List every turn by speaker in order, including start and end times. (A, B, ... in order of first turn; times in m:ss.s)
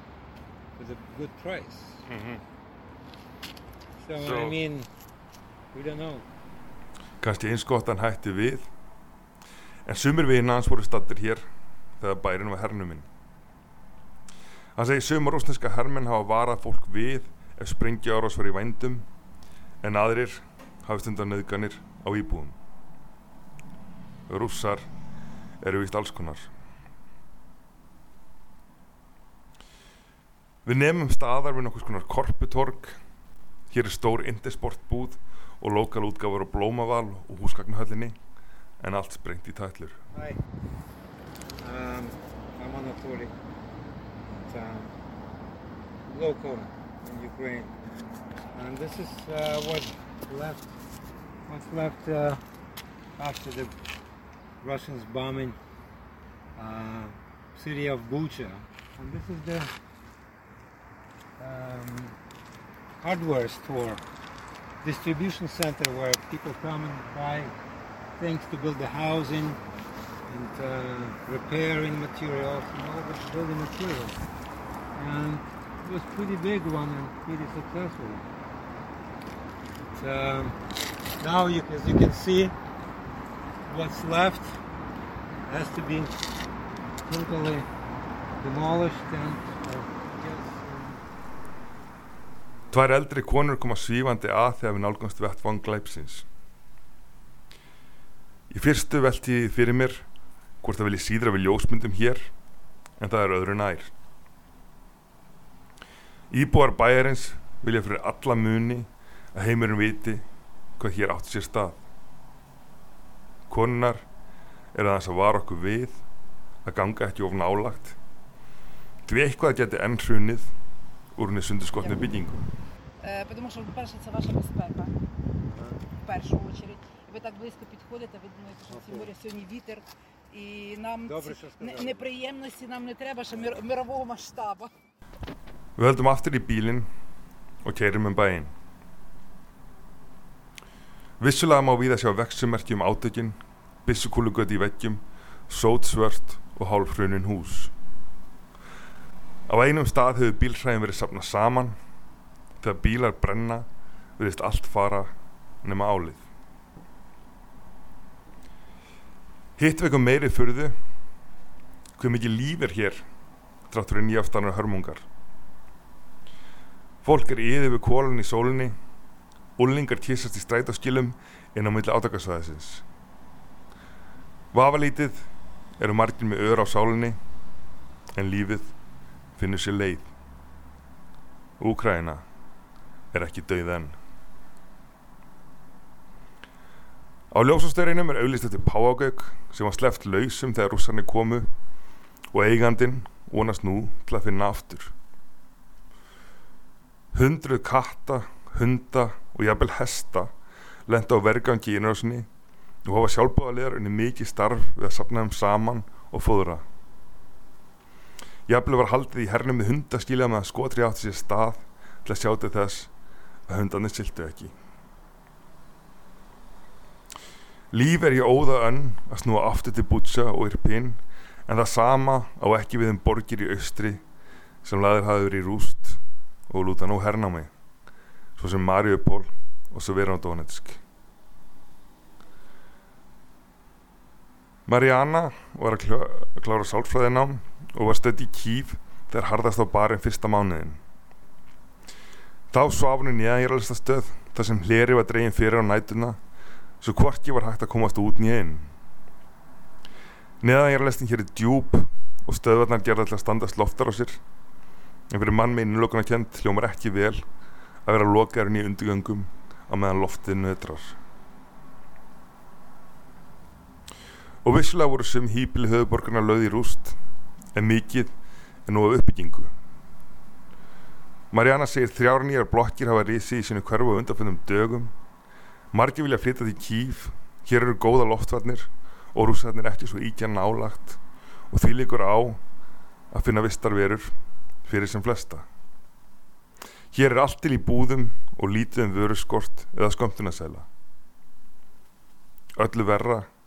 0:00.8-0:02.0 A
0:02.1-0:02.4 B
0:04.0-0:04.9 A
0:04.2-0:04.6 B
0:05.7-0:06.2 A
0:07.2-0:08.7 B
0:09.9-0:13.1 B
0:14.8-0:19.1 B
0:19.8-0:22.6 B
0:24.3-0:24.9 B
0:25.6-0:26.5 B
0:30.6-0:33.0 B
0:33.7-0:38.2 B
0:38.8-0:40.0 B
0:40.1-0:40.4 A
0:41.6-0:43.3 A
0:44.2-0:44.9 A
0:46.1-0:47.7 A
0:48.5-0:50.7 A
0:51.5-0:52.4 A
0:53.2-0:53.8 A
0:54.6-0:55.6 A
0:56.6-0:59.7 A
1:01.4-1:02.2 A
1:03.0-1:04.0 A
1:04.8-1:07.5 A
1:08.2-1:09.6 A
1:10.3-1:14.2 A
1:14.9-1:18.2 A
1:20.0-1:20.6 A
1:21.2-1:22.6 A
1:23.7-1:24.6 A
1:25.5-1:26.2 A
1:27.1-1:27.7 A
1:28.4-1:31.0 A
1:32.7-1:36.3 B
1:38.5-1:40.1 B
1:40.6-1:42.3 B
1:43.0-1:43.9 B
1:46.3-1:50.2 B
1:50.8-1:51.8 B
1:53.5-1:54.1 B
1:54.7-1:56.0 B
1:56.6-1:58.0 B
1:59.1-2:00.5 B
2:01.2-2:02.4 B
2:01.8-2:02.1 C
2:03.0-2:04.9 C
2:05.5-2:05.8 A
2:06.0-2:14.7 C
2:08.7-2:09.1 A
2:11.1-2:12.1 A
2:15.8-2:16.9 B
2:17.6-2:18.5 B
2:21.2-2:27.7 B
2:29.5-2:31.8 B
2:32.6-2:36.3 B
2:39.6-2:40.8 B
2:42.0-2:43.1 B
2:43.7-2:45.1 B
2:47.0-2:48.8 B
2:49.6-2:52.8 B
2:54.5-2:55.3 B
2:55.8-2:57.2 B
2:58.2-2:58.8 B
2:59.4-3:00.1 B
3:01.6-3:02.2 B
3:03.1-3:04.0 B
3:07.3-3:11.5 B
3:12.3-3:14.9 B
3:17.1-3:20.3 B
3:20.9-3:22.3 B
3:22.8-3:26.6 B
3:28.5-3:32.9 B
3:33.5-3:34.5 B
3:37.7-3:44.0 B
3:44.6-3:47.5 B
3:48.4-3:50.8 B
3:54.7-4:00.8 B
4:02.5-4:06.2 B
4:06.8-4:08.7 B
4:10.4-4:14.2 B
4:15.1-4:17.3 B
4:17.8-4:21.0 B
4:24.4-4:27.0 B
4:27.5-4:29.5 B
4:31.3-4:34.9 B
4:35.7-4:42.4 B
4:43.1-4:45.5 B
4:46.9-4:50.7 B
4:52.6-4:53.3 B